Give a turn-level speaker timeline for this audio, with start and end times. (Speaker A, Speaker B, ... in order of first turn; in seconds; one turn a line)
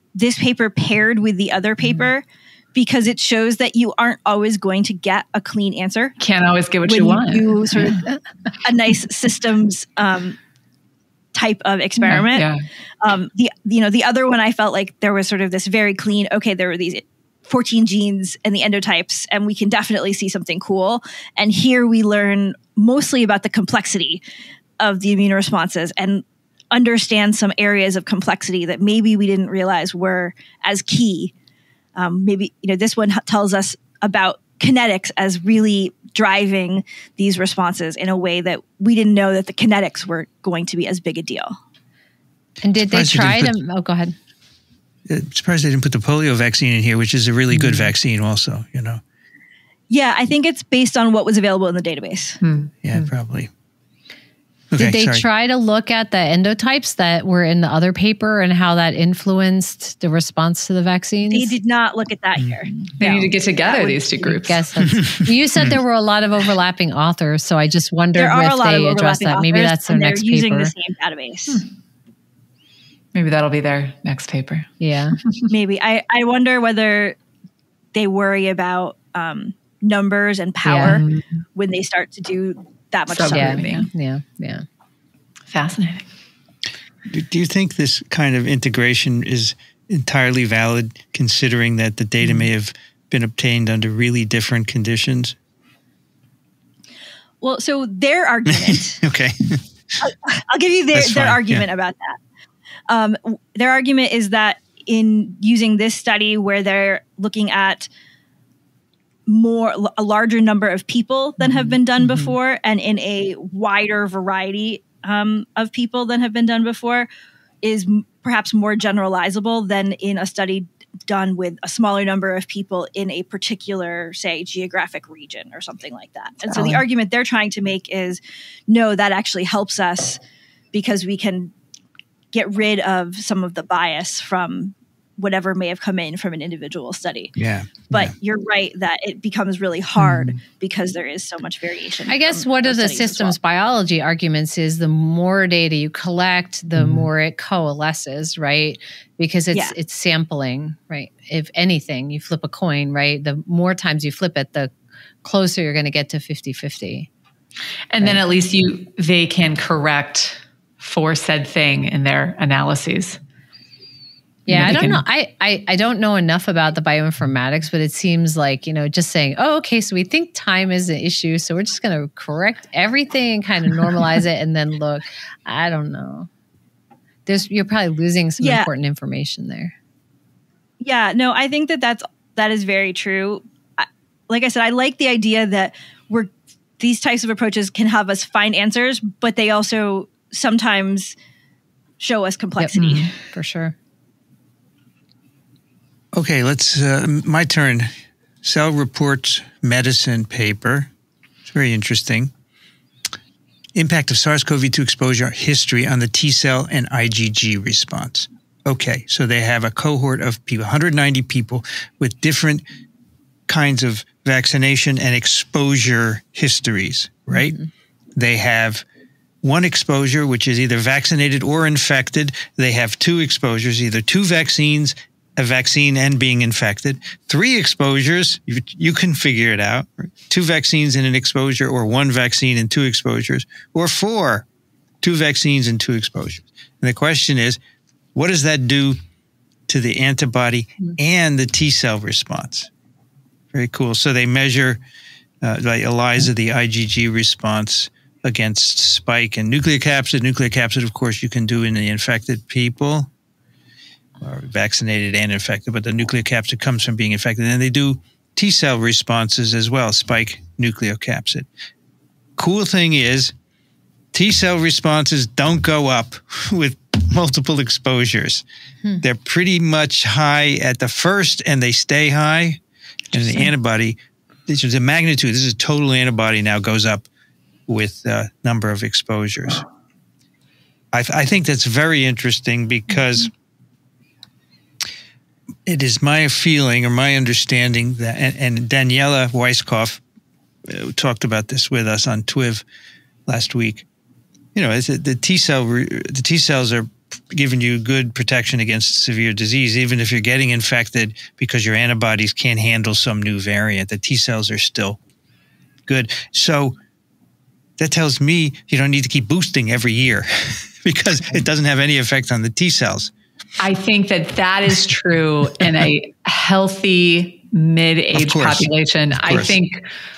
Speaker A: 0.1-2.2
Speaker A: 2.8-6.2
Speaker B: 6.2-8.0
Speaker A: 6.9-8.1
Speaker A: 8.6-10.4
Speaker A: 11.3-12.5
Speaker B: 12.1-12.6
Speaker A: 13.0-24.2
Speaker A: 24.8-31.3
Speaker A: 32.0-41.6
Speaker C: 42.6-44.1
Speaker D: 42.9-43.5
Speaker D: 45.1-49.0
Speaker C: 47.5-47.9
Speaker A: 49.9-52.4
Speaker B: 52.4-53.1
Speaker D: 52.8-53.5
Speaker D: 54.7-55.2
Speaker C: 54.8-61.5
Speaker A: 61.3-64.4
Speaker B: 63.0-64.6
Speaker C: 64.3-70.7
Speaker D: 65.0-65.8
Speaker A: 68.2-71.7
Speaker B: 73.1-75.5
Speaker C: 74.8-75.2
Speaker A: 75.5-77.2
Speaker A: 78.0-83.8
Speaker C: 80.7-81.0
Speaker B: 80.8-81.3
Speaker B: 83.1-83.9
Speaker C: 83.3-84.7
Speaker B: 85.5-86.1
Speaker D: 87.1-95.4
Speaker A: 97.4-99.0
Speaker D: 98.5-99.6
Speaker A: 100.0-102.2
Speaker D: 100.9-101.6
Speaker A: 102.9-107.9
Speaker A: 109.3-117.1
Speaker A: 117.6-130.2
Speaker B: 126.5-126.8
Speaker A: 130.7-131.5
Speaker A: 132.3-137.3
Speaker D: 137.4-138.1
Speaker A: 137.9-143.3
Speaker B: 140.1-140.3
Speaker C: 142.1-154.7
Speaker C: 155.2-157.1
Speaker B: 157.9-163.2
Speaker B: 164.5-165.0
Speaker C: 164.5-176.3
Speaker C: 177.3-179.8
Speaker A: 178.4-178.7
Speaker A: 180.8-191.2
Speaker A: 192.0-193.1
Speaker C: 192.6-193.8
Speaker B: 192.8-193.1
Speaker D: 196.1-200.9
Speaker D: 201.5-202.3
Speaker D: 203.8-212.6
Speaker D: 213.5-217.6
Speaker D: 218.2-218.8
Speaker D: 219.4-234.5
Speaker D: 235.0-237.6
Speaker D: 238.2-239.0
Speaker D: 239.7-242.7
Speaker D: 243.5-244.8
Speaker D: 245.4-253.1
Speaker D: 254.2-261.5
Speaker D: 262.4-263.3
Speaker D: 264.1-268.4
Speaker D: 269.0-272.6
Speaker D: 273.1-277.1
Speaker D: 277.7-279.6
Speaker D: 280.9-283.3
Speaker D: 285.7-290.0
Speaker D: 290.7-292.6
Speaker D: 293.3-293.9
Speaker D: 294.6-305.0
Speaker D: 305.9-306.8
Speaker D: 307.8-313.1
Speaker B: 313.6-319.9
Speaker D: 318.1-319.6